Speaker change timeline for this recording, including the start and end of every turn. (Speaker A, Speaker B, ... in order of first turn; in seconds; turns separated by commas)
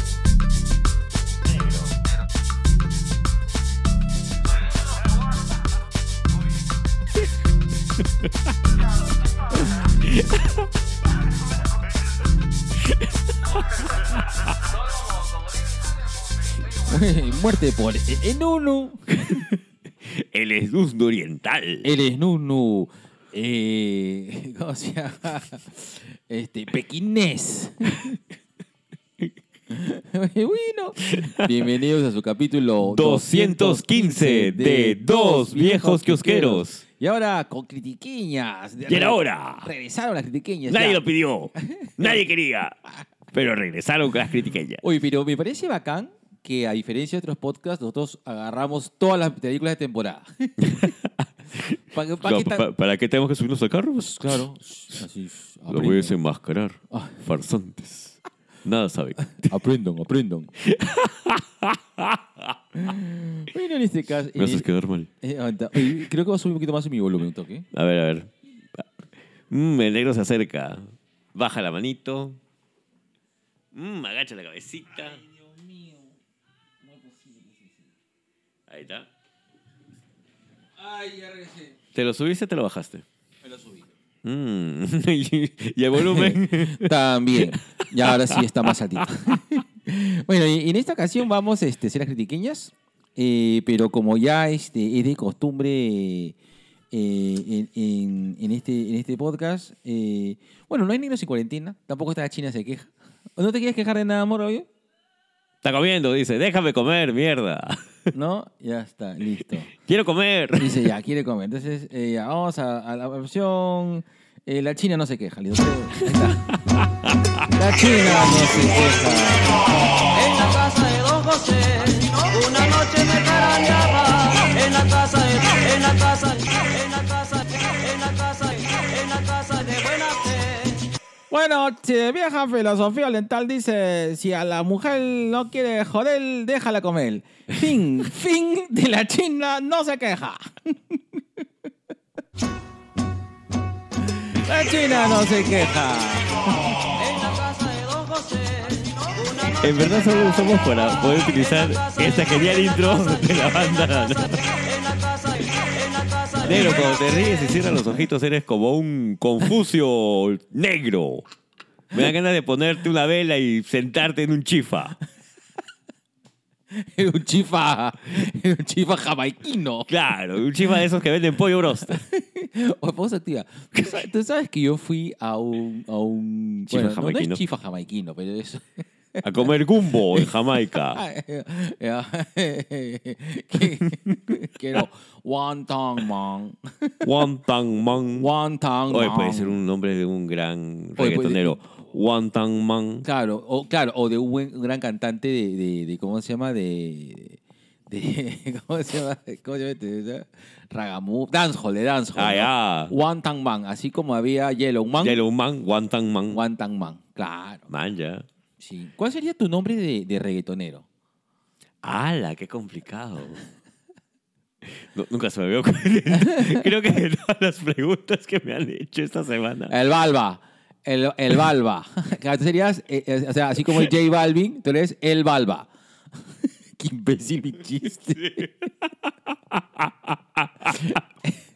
Speaker A: 1.5-1.9, Speaker A: 10.0-10.5, Speaker B: 16.8-19.3, Speaker A: 19.2-21.9, Speaker B: 21.8-28.2, Speaker B: 29.7-41.0, Speaker A: 31.2-31.7, Speaker A: 32.8-36.8, Speaker A: 38.9-39.7, Speaker A: 40.7-42.8, Speaker B: 41.6-42.2, Speaker A: 43.3-44.8, Speaker B: 44.8-50.9, Speaker A: 50.6-50.9, Speaker A: 51.5-54.4, Speaker B: 51.9-52.7, Speaker B: 54.2-56.2, Speaker A: 55.7-59.5, Speaker B: 56.9-57.2, Speaker B: 59.4-60.5, Speaker A: 60.6-62.6, Speaker B: 62.8-64.7, Speaker A: 64.3-65.1, Speaker B: 65.2-67.7, Speaker A: 65.8-66.0, Speaker A: 67.7-72.4, Speaker A: 73.7-75.2, Speaker B: 75.2-76.1, Speaker B: 76.8-77.8, Speaker A: 78.7-79.1, Speaker B: 80.8-81.7, Speaker A: 82.0-83.1, Speaker B: 83.4-83.9, Speaker A: 84.2-88.7, Speaker B: 86.0-96.4, Speaker B: 96.9-104.7, Speaker A: 105.6-107.8, Speaker B: 108.1-109.7, Speaker A: 109.8-110.9, Speaker B: 110.6-116.6, Speaker A: 116.8-117.3, Speaker B: 117.5-119.8, Speaker C: 120.7-126.8, Speaker C: 127.9-130.5, Speaker B: 131.3-141.2, Speaker B: 144.0-146.9, Speaker C: 147.5-148.8, Speaker A: 149.5-154.6, Speaker C: 155.7-156.2, Speaker A: 156.4-161.2, Speaker B: 156.5-156.9, Speaker A: 161.9-165.0, Speaker B: 166.7-169.9, Speaker A: 169.9-172.0, Speaker B: 171.9-179.2, Speaker A: 176.7-177.4, Speaker A: 179.2-181.0, Speaker B: 180.1-187.1, Speaker A: 187.0-188.3, Speaker B: 188.2-189.6, Speaker A: 188.9-193.1, Speaker B: 191.0-191.6, Speaker B: 193.0-205.2, Speaker A: 202.2-202.9, Speaker A: 205.0-206.4, Speaker B: 206.3-207.7, Speaker A: 207.7-208.3, Speaker B: 208.6-210.8, Speaker A: 211.8-213.4, Speaker A: 214.6-219.8, Speaker B: 219.7-225.7, Speaker B: 226.8-228.5, Speaker A: 228.2-228.5, Speaker A: 229.5-231.0